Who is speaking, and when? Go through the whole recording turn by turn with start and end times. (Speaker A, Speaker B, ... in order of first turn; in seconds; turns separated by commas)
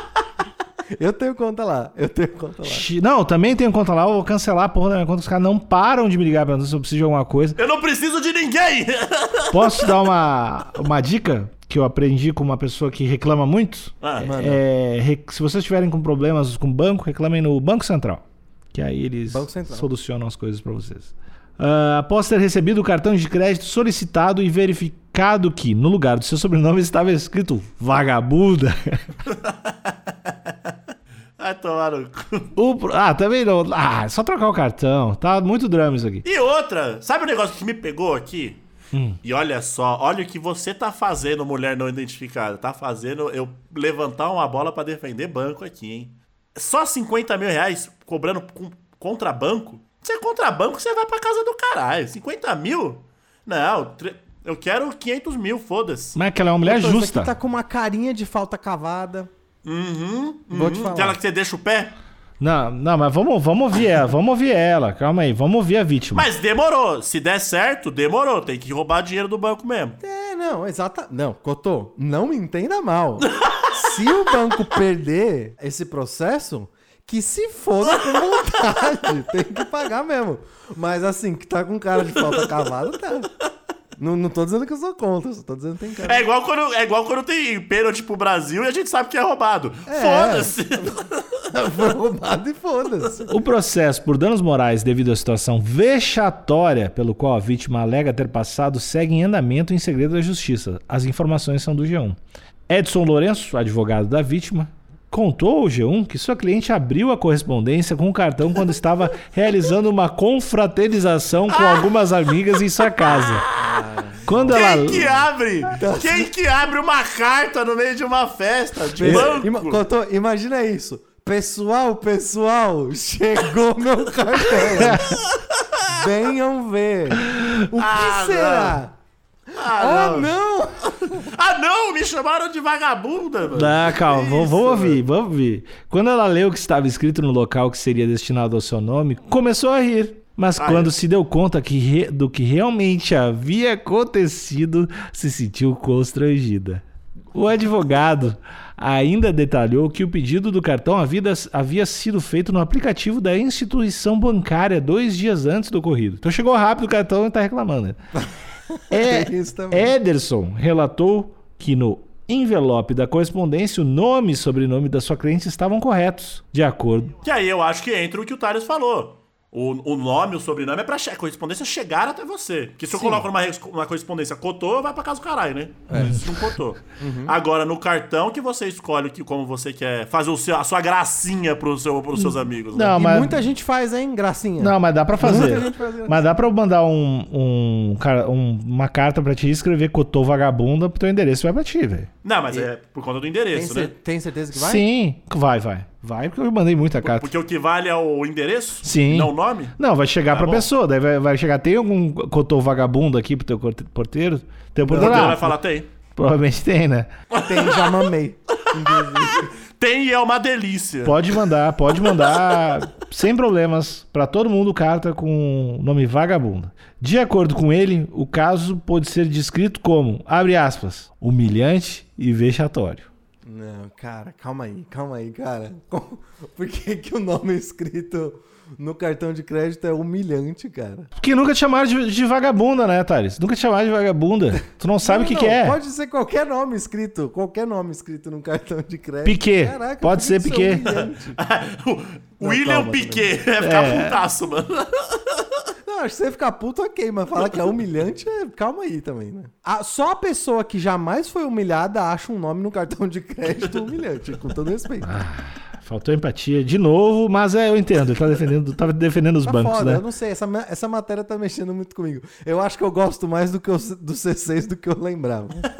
Speaker A: 1.0-2.9, Speaker B: 2.6-7.6, Speaker C: 7.6-9.9, Speaker B: 9.5-29.1, Speaker C: 14.0-14.3, Speaker A: 14.2-14.6, Speaker A: 19.3-19.9, Speaker C: 29.4-30.7, Speaker C: 31.4-32.5, Speaker B: 32.6-36.2, Speaker C: 36.2-38.6, Speaker B: 38.9-39.2, Speaker C: 39.2-56.2, Speaker B: 56.1-57.3, Speaker A: 56.6-59.3, Speaker C: 59.6-61.9, Speaker A: 60.5-61.2, Speaker B: 62.4-66.3, Speaker C: 66.1-70.0, Speaker A: 70.0-83.3, Speaker A: 84.0-86.3, Speaker C: 86.0-91.2, Speaker A: 89.9-90.9, Speaker A: 91.5-93.4, Speaker B: 93.3-102.2, Speaker B: 102.7-113.5, Speaker C: 111.5-111.9, Speaker C: 112.6-113.7, Speaker A: 113.5-116.3, Speaker B: 114.2-115.1, Speaker C: 114.5-119.8, Speaker A: 118.9-125.2, Speaker B: 119.0-119.4, Speaker A: 125.9-128.9, Speaker B: 127.2-127.5, Speaker C: 127.8-128.8, Speaker C: 129.6-130.3, Speaker A: 129.6-131.3, Speaker C: 131.1-135.0, Speaker B: 133.5-146.8, Speaker C: 140.6-140.9, Speaker B: 147.3-158.0, Speaker A: 158.9-159.9, Speaker B: 158.9-167.2, Speaker C: 167.2-183.0, Speaker A: 172.9-173.3, Speaker A: 175.9-176.2, Speaker A: 177.0-177.3, Speaker B: 182.2-183.4, Speaker A: 182.9-186.3, Speaker B: 184.6-192.1, Speaker C: 185.2-185.6, Speaker C: 192.2-193.9, Speaker A: 193.5-194.8, Speaker B: 194.5-197.3, Speaker C: 197.0-199.8, Speaker B: 198.8-205.5, Speaker C: 200.3-200.7, Speaker A: 204.9-205.4, Speaker C: 204.9-205.9, Speaker B: 206.2-207.1, Speaker C: 207.4-207.9, Speaker A: 207.4-209.5, Speaker C: 209.2-211.4, Speaker B: 211.0-223.1, Speaker C: 212.1-212.4, Speaker A: 223.4-231.1, Speaker B: 231.2-235.8, Speaker A: 235.0-241.4, Speaker B: 239.2-241.0, Speaker C: 241.4-245.5, Speaker A: 242.4-243.3, Speaker B: 243.6-244.2, Speaker A: 245.8-255.1, Speaker B: 255.0-260.0, Speaker A: 259.4-265.7